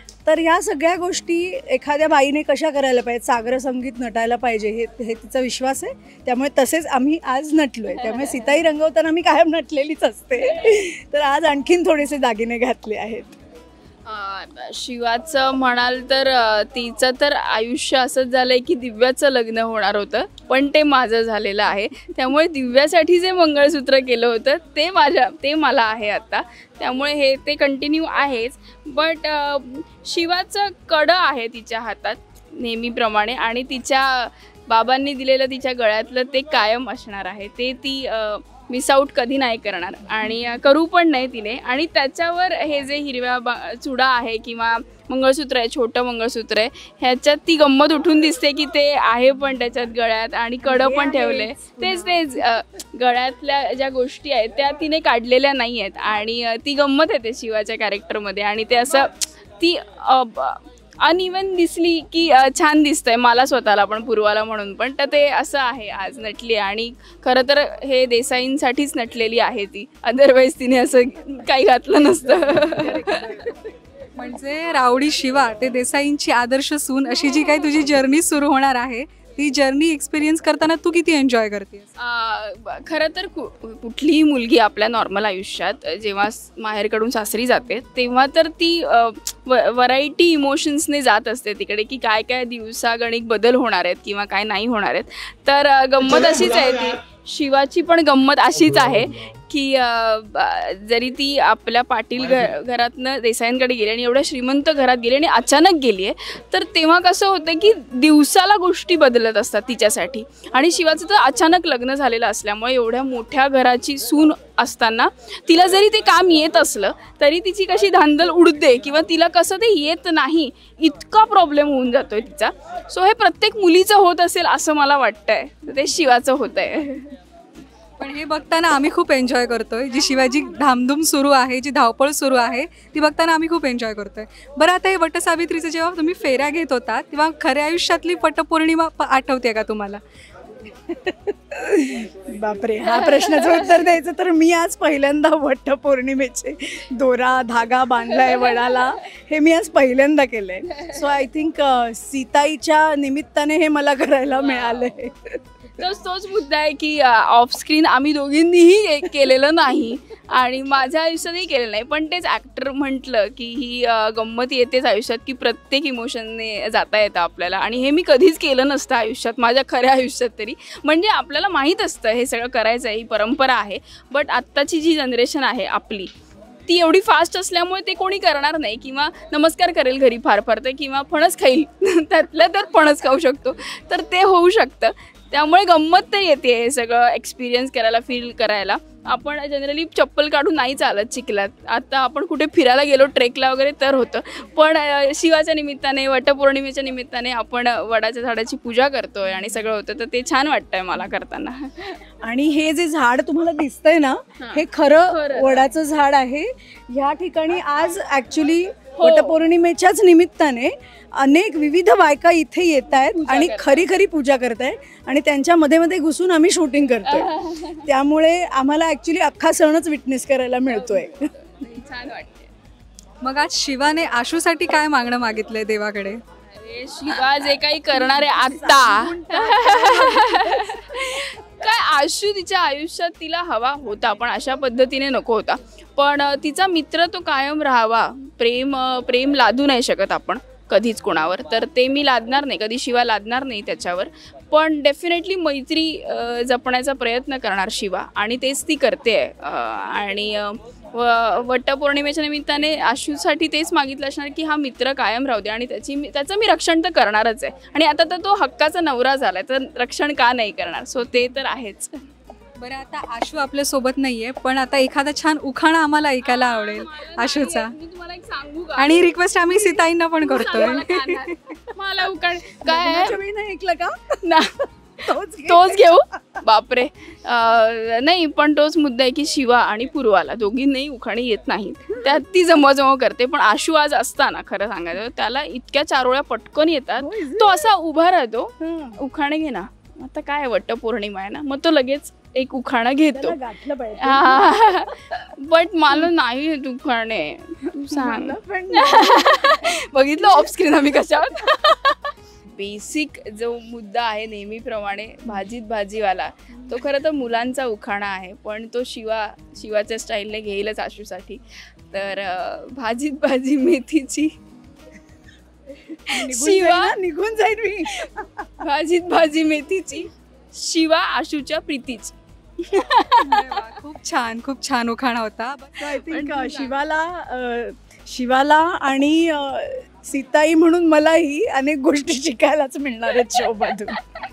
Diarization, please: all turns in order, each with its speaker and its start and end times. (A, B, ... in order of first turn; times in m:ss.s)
0:00.2-0:13.4 A
0:14.0-1:13.5 B
0:50.6-0:52.3 A
1:12.2-1:13.6 A
1:14.2-1:21.9 C
1:22.0-2:07.1 B
2:08.0-2:20.0 C
2:20.9-2:35.8 A
2:28.3-2:28.8 B
2:34.4-2:34.9 B
2:35.8-2:56.1 B
2:56.7-3:22.0 B
3:22.2-3:41.3 A
3:24.4-3:25.7 B
3:29.0-3:29.4 B
3:33.2-3:33.8 B
3:37.1-3:37.9 B
3:40.7-3:42.5 B
3:43.2-3:46.2 C
3:46.5-4:21.9 B
3:47.9-3:51.2 A
4:22.6-4:27.8 C
4:26.2-4:33.2 B
4:28.8-4:31.2 C
4:32.6-4:34.2 A
4:34.2-4:34.7 B
4:35.0-4:36.4 A
4:35.5-4:53.4 B
4:47.0-4:47.7 A
4:48.6-4:49.0 A
4:53.1-4:54.6 A
4:54.0-5:14.3 B
4:57.9-5:00.5 A
5:16.1-5:17.0 B
5:16.1-5:18.5 A
5:18.6-5:23.6 B
5:23.2-5:26.0 C
5:25.8-5:34.0 A
5:26.0-5:26.8 B